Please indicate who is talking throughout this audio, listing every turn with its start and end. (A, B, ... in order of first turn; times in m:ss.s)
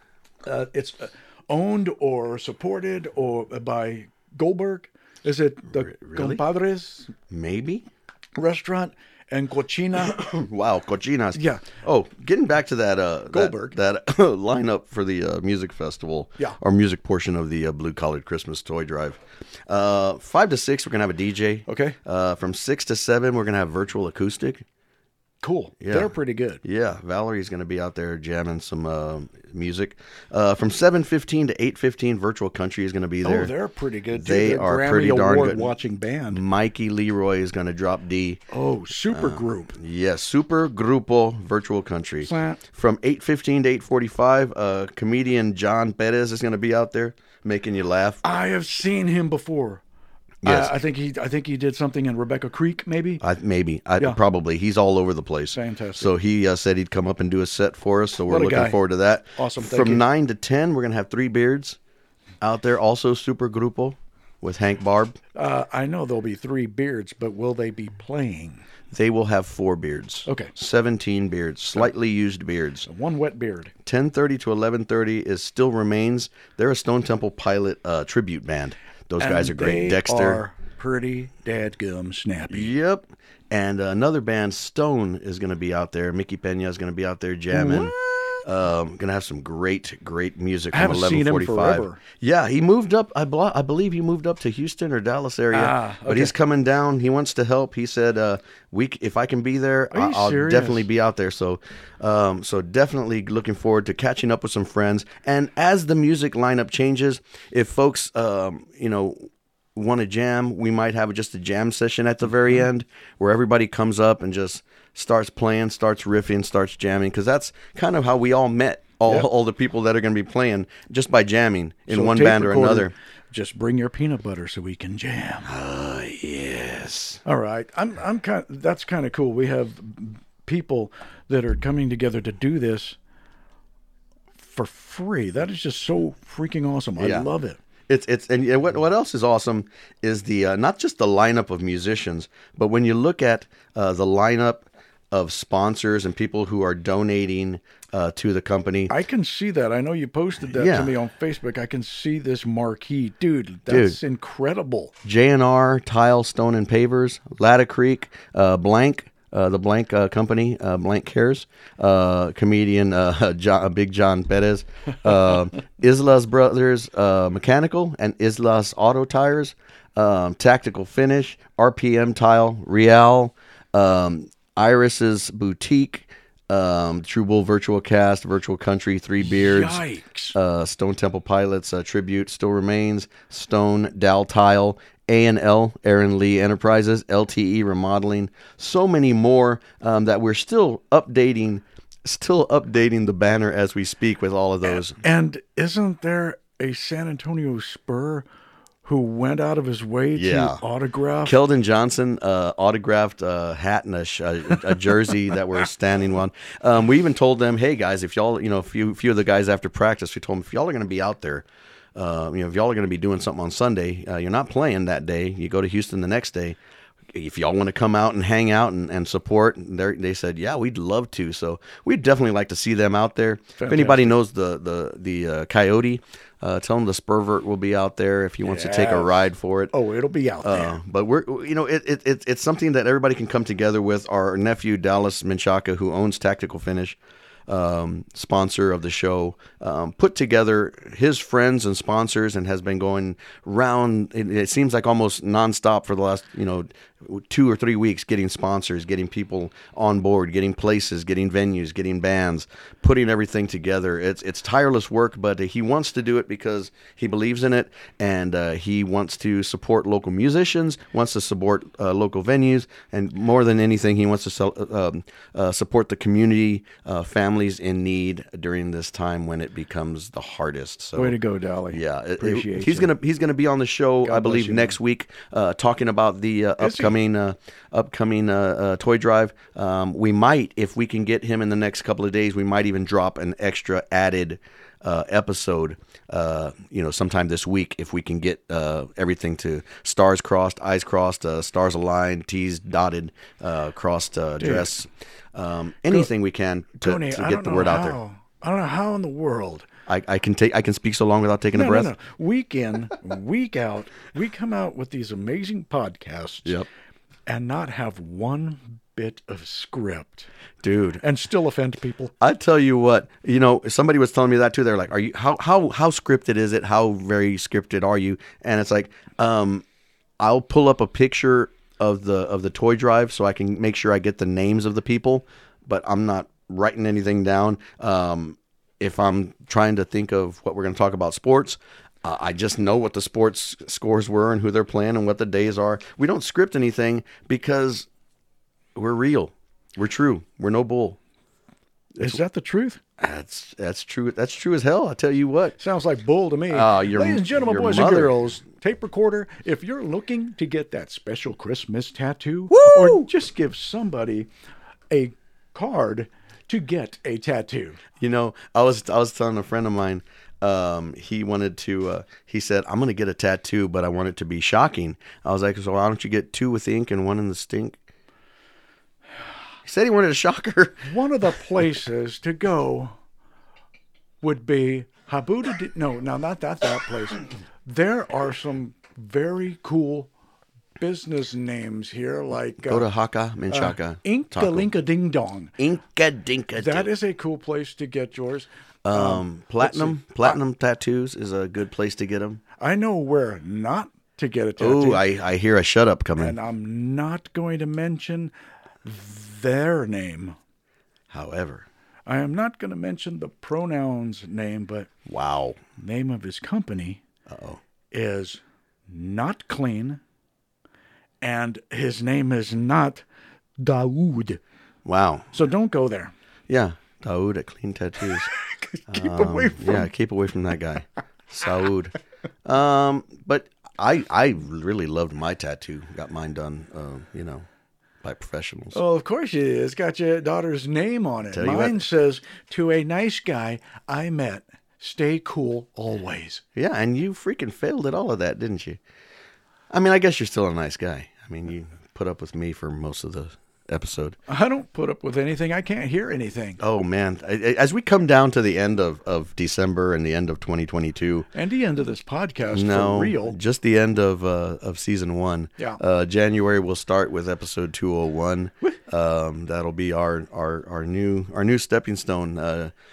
0:00.4-0:07.1 A
0:05.7-0:06.4 B
0:07.3-0:07.9 B
0:08.4-0:10.3 A
0:10.1-0:24.7 B
0:11.4-0:11.7 A
0:13.3-0:13.8 A
0:21.7-0:22.0 A
0:25.4-0:26.6 A
0:25.8-0:26.1 B
0:26.6-0:33.5 B
0:33.2-0:36.4 A
0:34.1-0:35.7 B
0:36.3-0:38.4 B
0:38.5-0:39.8 A
0:39.1-0:48.2 B
0:42.2-0:42.6 A
0:48.2-0:49.8 A
0:50.4-0:50.7 B
0:50.4-0:53.2 A
0:53.2-1:01.8 B
0:55.5-0:56.1 A
0:58.3-0:58.8 A
0:59.4-1:00.0 A
1:02.4-1:05.2 B
1:05.4-1:08.6 A
1:08.9-1:12.9 B
1:10.3-1:10.5 A
1:12.8-1:13.7 A
1:13.8-1:20.4 B
1:19.2-1:22.7 A
1:22.5-2:02.9 B
1:27.5-1:28.4 A
1:30.7-1:32.0 A
1:35.5-1:36.3 A
1:39.9-1:40.9 A
2:01.9-2:05.5 A
2:05.4-2:07.2 B
2:07.2-2:13.0 A
2:14.4-2:17.6 A
2:17.0-2:17.3 B
2:17.9-2:28.9 B
2:28.9-2:34.9 A
2:30.4-2:31.0 B
2:33.7-2:34.0 B
2:35.0-2:59.8 B
2:59.2-3:00.4 A
3:00.4-3:15.0 B
3:14.7-3:18.2 A
3:18.8-3:21.4 A
3:20.2-3:20.6 B
3:21.2-3:36.6 B
3:37.1-3:49.7 B
3:43.6-3:44.2 A
3:48.4-3:50.8 A
3:50.4-4:31.2 B
4:31.0-4:32.9 A
4:31.7-4:58.0 B
4:34.0-4:34.8 A
4:36.6-4:37.0 A
4:54.4-4:54.7 A
4:56.8-4:59.7 A
4:59.9-5:01.9 B
5:01.5-5:06.6 A
5:07.3-5:10.3 A
5:10.6-5:11.0 B
5:11.0-5:12.1 A
5:12.2-5:19.6 B
5:20.2-5:37.9 B
5:38.8-5:41.0 B
5:42.0-5:42.8 A
5:43.0-5:45.6 B
5:45.6-5:54.3 A
5:46.5-5:48.1 B
5:52.5-5:53.0 B
5:54.9-5:57.8 A
5:58.0-6:07.8 B
6:09.6-6:10.9 B
6:10.8-6:12.9 A
6:14.2-6:20.1 A
6:20.8-6:22.9 A
6:22.6-6:24.7 B
6:23.5-6:25.5 A
6:25.6-6:26.9 B
6:26.6-6:30.4 A
6:28.8-6:32.4 B
6:32.6-6:35.0 A
6:34.6-6:36.4 B
6:36.2-6:38.3 A
6:38.8-6:40.4 A
6:41.1-6:41.7 B
6:42.1-6:44.9 A
6:45.0-6:45.6 B
6:45.8-6:47.0 A
6:47.3-6:47.6 B
6:47.9-6:50.0 A
6:51.2-6:53.0 A
6:53.6-6:54.4 A
6:54.8-6:55.3 B
6:55.3-6:56.1 A
6:56.5-6:58.3 B
6:58.1-6:59.9 A
6:58.9-7:07.5 B
7:08.0-7:08.8 B
7:08.7-7:16.4 A
7:11.3-7:11.9 B
7:16.6-7:18.8 B
7:19.7-7:24.2 B
7:24.3-7:26.6 A
7:26.6-7:31.3 B
7:31.3-7:33.4 A
7:32.5-7:42.7 B